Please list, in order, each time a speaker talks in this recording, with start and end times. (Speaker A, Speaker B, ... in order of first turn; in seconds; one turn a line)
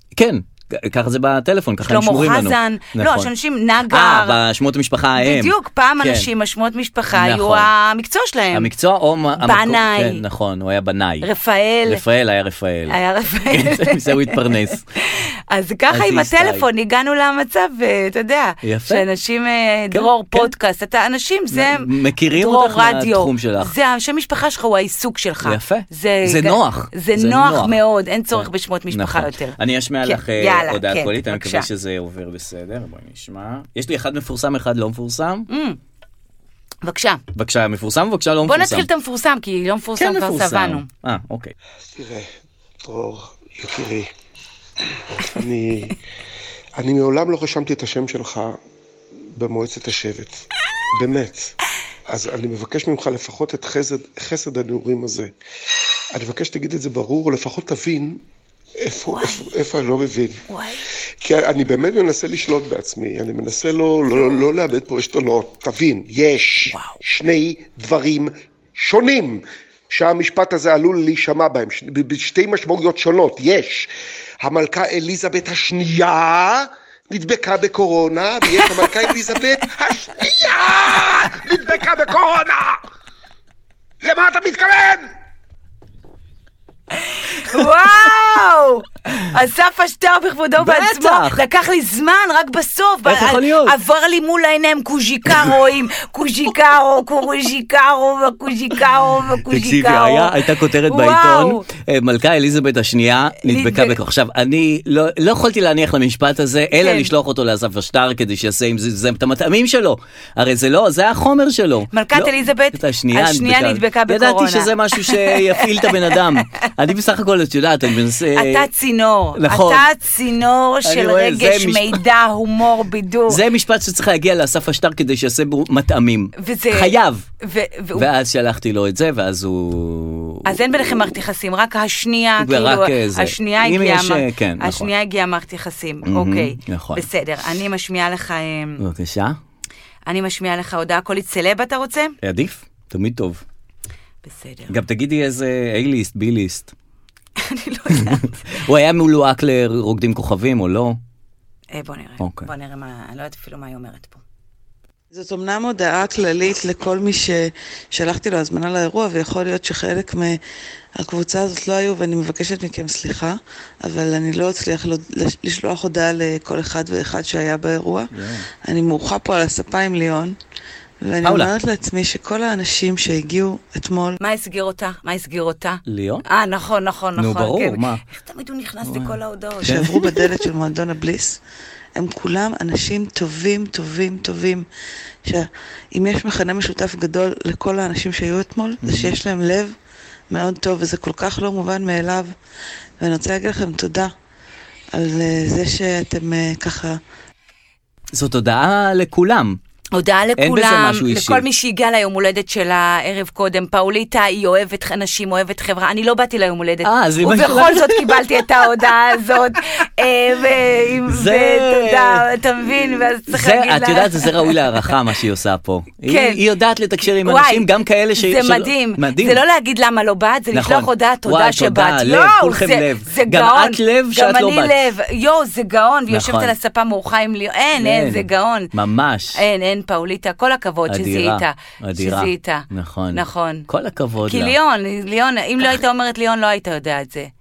Speaker A: 0.1-3.3
Speaker B: 1.8-4.4
Speaker A: 3.8-6.3
Speaker B: 5.2-8.7
Speaker A: 7.1-7.7
Speaker A: 8.5-11.3
Speaker B: 9.4-10.2
Speaker B: 11.2-12.0
Speaker A: 11.8-13.0
Speaker B: 12.9-14.4
Speaker A: 13.5-14.8
Speaker B: 15.0-31.7
Speaker A: 15.9-16.6
Speaker A: 18.6-19.0
Speaker A: 19.9-20.5
Speaker A: 21.5-23.7
Speaker A: 25.4-27.8
Speaker A: 28.3-35.5
Speaker B: 35.5-35.8
Speaker B: 36.8-37.2
Speaker A: 37.3-38.9
Speaker B: 38.5-40.9
Speaker A: 40.0-41.5
Speaker C: 41.9-42.3
Speaker C: 42.8-44.1
Speaker C: 45.1-46.0
Speaker C: 46.8-48.6
Speaker C: 49.4-51.5
Speaker C: 52.1-55.3
Speaker C: 56.1-58.2
Speaker C: 58.8-60.4
Speaker B: 59.1-59.5
Speaker B: 60.5-60.8
Speaker C: 61.2-73.9
Speaker B: 66.7-67.0
Speaker C: 74.4-82.8
Speaker C: 84.0-85.1
Speaker B: 87.0-101.7
Speaker A: 90.6-91.4
Speaker A: 93.0-93.8
Speaker A: 99.5-118.7
Speaker B: 103.4-103.9
Speaker B: 106.7-107.1
Speaker B: 111.9-116.2
Speaker B: 118.3-123.4
Speaker A: 119.3-119.9
Speaker A: 120.8-122.0
Speaker A: 123.3-127.2
Speaker B: 126.4-128.1
Speaker A: 127.9-130.6
Speaker B: 130.4-138.8
Speaker A: 132.4-134.9
Speaker A: 136.0-137.1
Speaker A: 138.8-139.4
Speaker B: 140.1-142.2
Speaker A: 142.2-143.4
Speaker B: 144.2-144.8
Speaker A: 144.7-146.7
Speaker B: 147.4-148.6
Speaker A: 147.9-151.0
Speaker B: 151.7-154.2
Speaker A: 152.2-152.5
Speaker D: 155.1-160.4
Speaker D: 160.9-168.1
Speaker A: 168.1-168.5
Speaker D: 168.6-170.3
Speaker D: 171.0-174.2
Speaker A: 171.2-171.5
Speaker B: 174.2-179.9
Speaker A: 175.8-176.2
Speaker A: 177.2-178.0
Speaker A: 178.8-180.3
Speaker D: 179.6-181.4
Speaker D: 181.9-184.7
Speaker D: 185.2-189.8
Speaker A: 188.8-189.2
Speaker D: 190.3-192.3
Speaker D: 193.0-194.1
Speaker D: 194.9-197.0
Speaker A: 198.1-199.6
Speaker B: 199.9-214.8
Speaker A: 200.4-201.4
Speaker A: 206.8-208.8
Speaker A: 211.1-212.3
Speaker A: 213.3-219.4
Speaker B: 216.1-216.4
Speaker B: 217.2-217.7
Speaker B: 218.2-228.7
Speaker A: 220.5-224.9
Speaker A: 226.1-226.5
Speaker A: 227.7-229.4
Speaker B: 229.3-233.7
Speaker A: 230.9-234.5
Speaker B: 234.2-237.3